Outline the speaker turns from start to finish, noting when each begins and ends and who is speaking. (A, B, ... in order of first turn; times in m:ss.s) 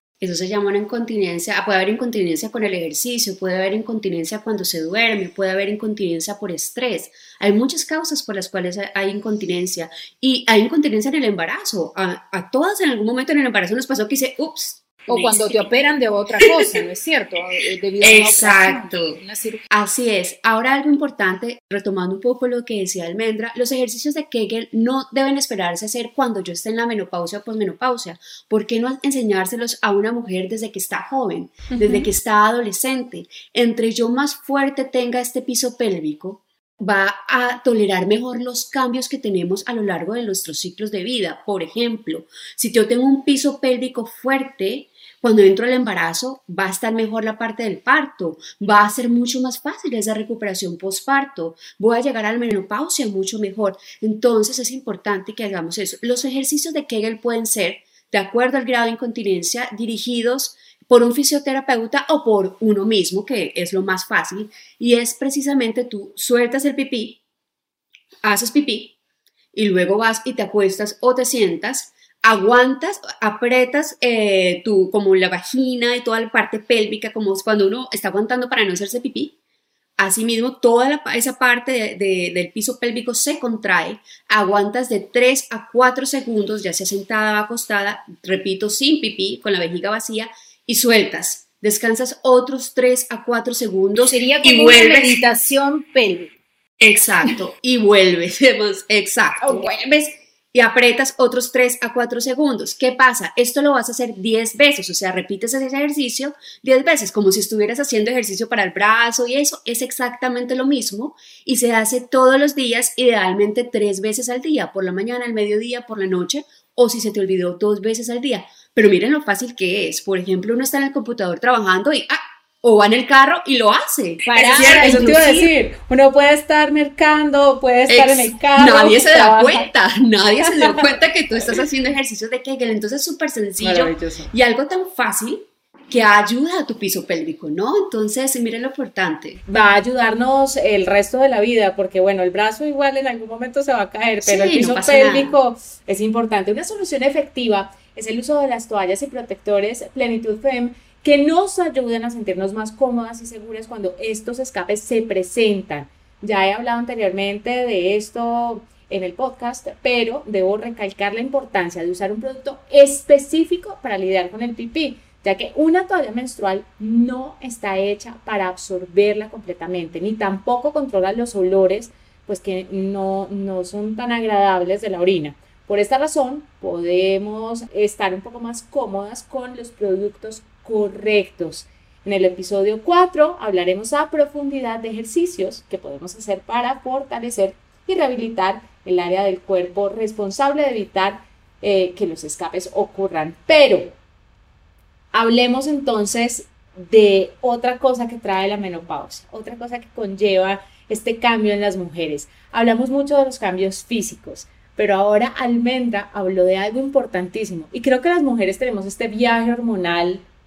0:00.2-0:15.7 A
0:15.1-0:19.6 B
0:16.4-0:16.8 A
0:18.0-0:19.2 A
0:19.7-1:07.2 A
0:31.7-0:32.1 C
1:08.2-1:09.0 A
1:09.5-1:19.4 A
1:20.0-1:35.2 A
1:34.0-1:36.3 B
1:36.8-2:05.5 A
1:39.4-1:39.7 B
2:04.2-2:05.3 B
2:04.6-2:09.7 C
2:07.9-2:19.4 A
2:10.4-2:11.0 C
2:13.6-2:14.3 C
2:19.5-3:14.0 C
2:24.2-2:25.4 A
3:15.1-3:30.2 C